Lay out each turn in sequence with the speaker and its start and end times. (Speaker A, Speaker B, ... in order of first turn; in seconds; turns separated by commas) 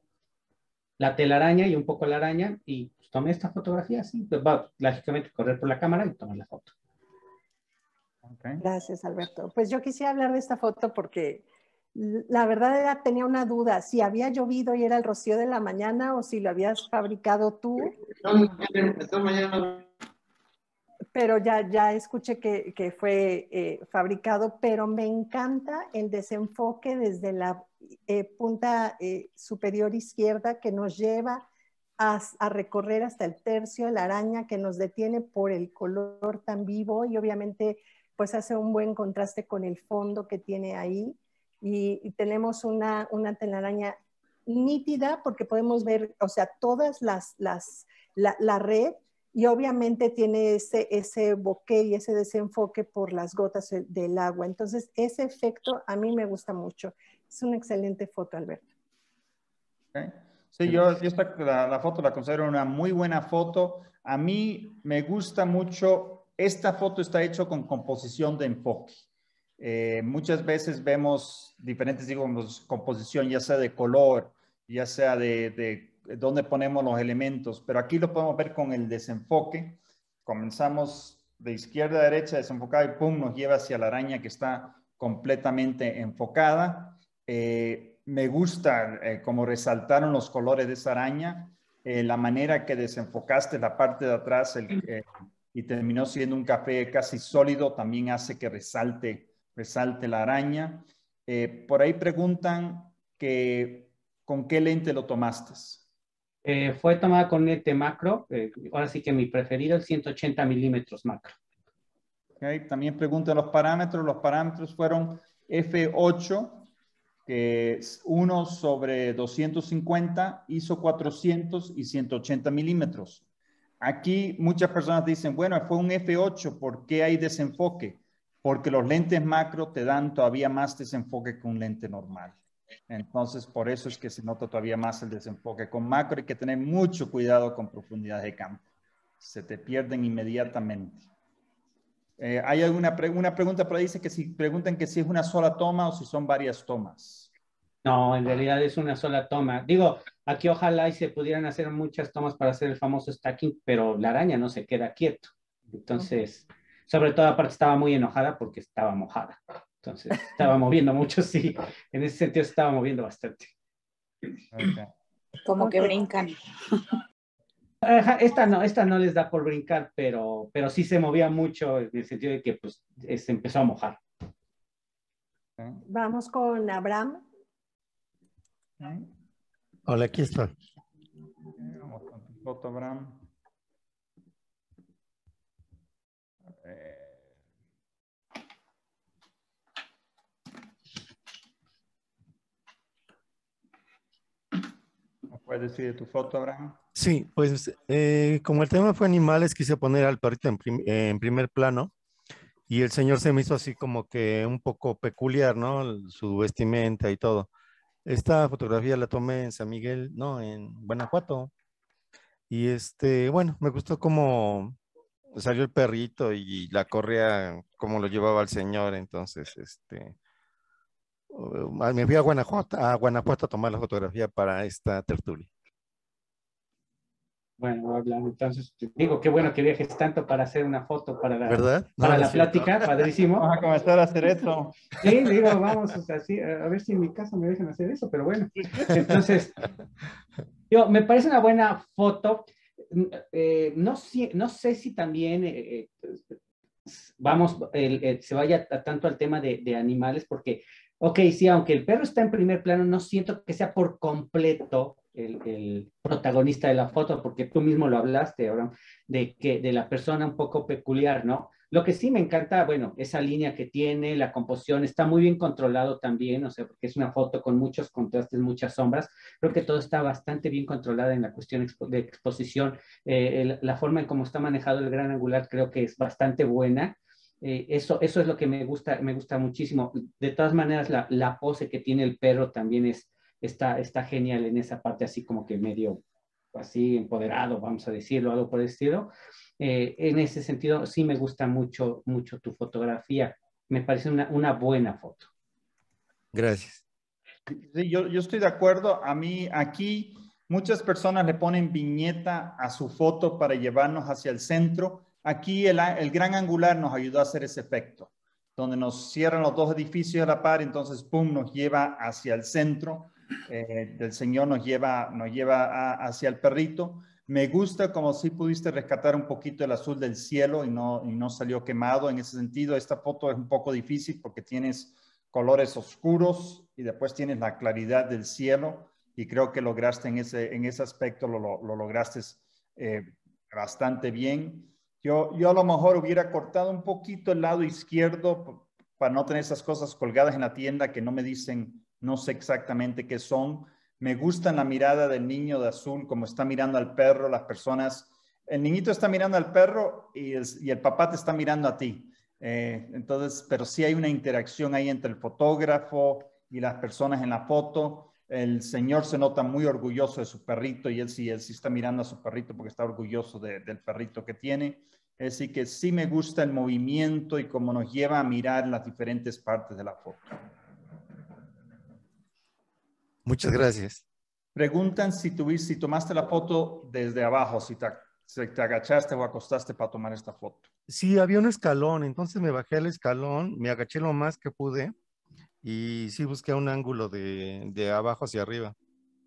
Speaker A: 1.0-6.7, Speaker B: 8.2-8.6, Speaker C: 8.6-17.9, Speaker C: 21.1-31.4, Speaker C: 32.0-58.7, Speaker B: 59.9-69.0, Speaker B: 69.6-105.8, Speaker A: 106.4-111.4, Speaker B: 112.4-116.7, Speaker B: 117.3-123.2, Speaker B: 123.8-132.4, Speaker B: 132.9-138.6, Speaker B: 139.2-141.1, Speaker B: 142.2-147.3, Speaker A: 147.8-163.5, Speaker B: 164.5-164.9, Speaker C: 165.6-166.0, Speaker A: 167.8-174.0, Speaker C: 175.9-177.2, Speaker B: 178.8-179.1, Speaker D: 179.9-180.5, Speaker B: 181.6-183.2, Speaker B: 186.5-187.2, Speaker B: 195.3-196.8, Speaker D: 196.9-201.9, Speaker D: 202.7-207.5, Speaker D: 208.0-211.5, Speaker D: 212.5-214.8, Speaker D: 215.3-220.2, Speaker D: 221.3-225.5, Speaker A: 227.6-233.5, Speaker D: 231.5-233.1, Speaker B: 233.4-234.8, Speaker A: 235.0-239.6, Speaker A: 240.7-246.2, Speaker A: 246.8-286.0, Speaker A: 286.5-289.1, Speaker A: 289.6-295.3, Speaker D: 296.3-296.8, Speaker B: 297.5-370.4, Speaker D: 373.2-374.0, Speaker B: 374.6-380.7, Speaker D: 380.9-384.9, Speaker D: 385.6-388.7